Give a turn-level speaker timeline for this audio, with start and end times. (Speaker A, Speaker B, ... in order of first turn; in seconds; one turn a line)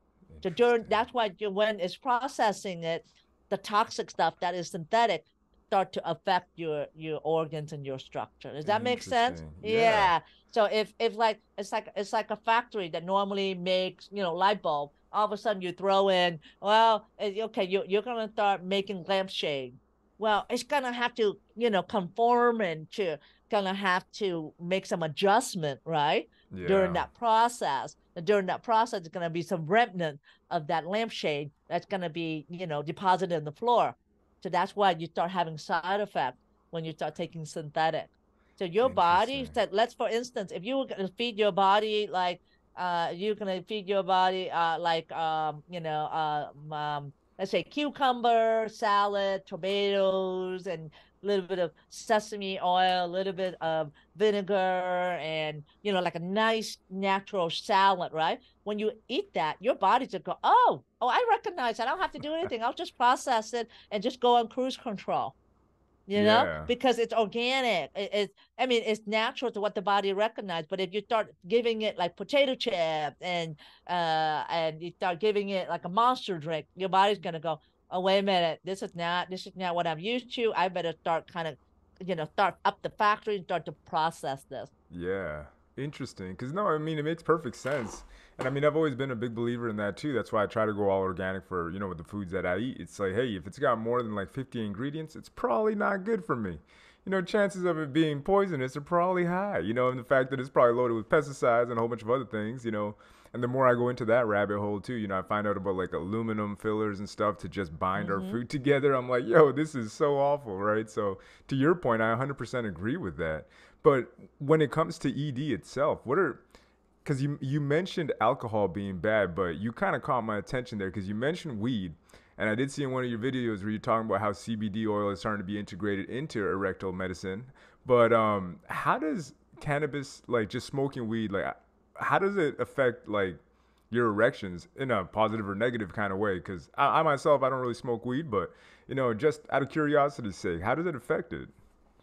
Speaker A: 0.3-1.0
Speaker B: 0.4-65.3
Speaker A: 8.7-10.1
Speaker A: 26.5-27.1
Speaker A: 38.8-39.6
Speaker B: 66.1-84.7
Speaker A: 66.1-66.7
Speaker A: 84.9-116.4
Speaker B: 108.0-108.4
Speaker A: 117.0-133.4
Speaker A: 133.9-141.5